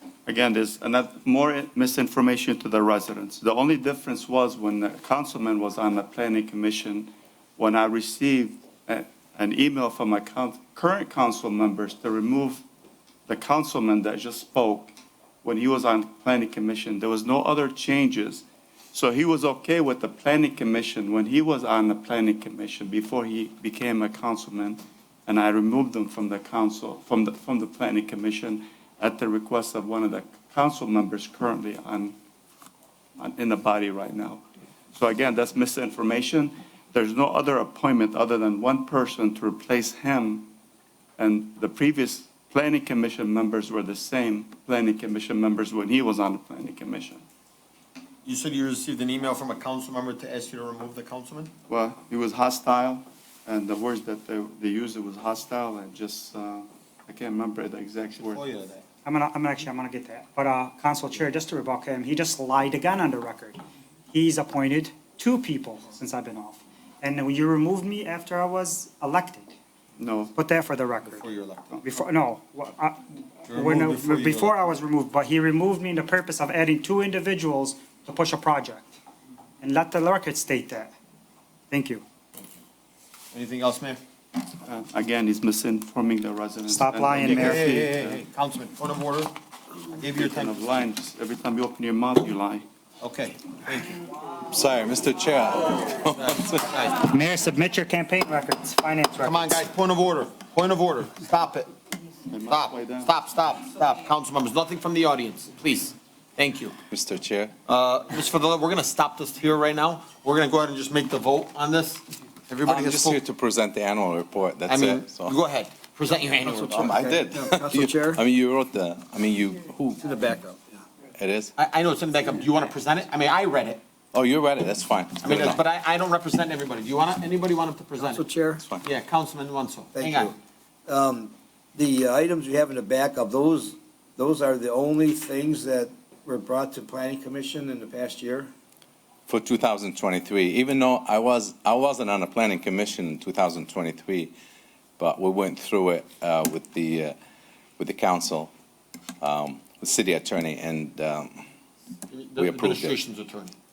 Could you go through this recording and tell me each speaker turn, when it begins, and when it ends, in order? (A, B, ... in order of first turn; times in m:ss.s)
0:00.2-0:12.6 A
0:13.3-0:14.9 A
0:15.4-0:32.2 A
0:33.2-0:34.4 A
0:34.9-0:40.5 A
0:41.2-0:47.2 A
0:48.2-0:51.5 B
0:51.7-0:58.4 A
0:58.2-0:58.8 B
0:59.0-1:03.6 C
1:04.1-1:09.5 C
1:10.0-1:10.3 A
1:10.3-1:11.2 C
1:11.1-1:11.8 B
1:11.8-1:18.9 C
1:13.5-1:14.6 B
1:19.6-1:20.9 C
1:21.7-1:22.0 C
1:23.3-1:24.0 B
1:24.6-1:28.2 A
1:26.7-1:27.9 C
1:27.2-1:29.3 B
1:30.0-1:30.8 B
1:30.1-1:32.6 A
1:33.0-1:34.0 B
1:34.5-1:36.5 D
1:36.2-1:37.0 B
1:37.1-1:39.6 C
1:39.2-1:41.7 B
1:42.3-1:43.1 A
1:42.5-1:46.7 B
1:46.9-1:47.5 D
1:47.7-1:53.2 B
1:52.6-1:55.4 D
1:54.7-1:56.9 B
1:56.4-1:58.2 E
1:56.7-2:00.0 D
1:59.9-2:00.8 E
2:01.2-2:01.5 D
2:01.6-2:03.8 B
2:04.1-2:05.6 D
2:05.2-2:08.2 B
2:08.0-2:08.6 E
2:08.8-2:10.3 B
2:09.9-2:10.3 E
2:10.9-2:18.5 E
2:19.3-2:24.3 D
2:25.0-2:27.1 D
2:27.8-2:28.5 D
2:29.2-2:31.4 D
2:32.1-2:33.5 B
2:32.4-2:33.0 D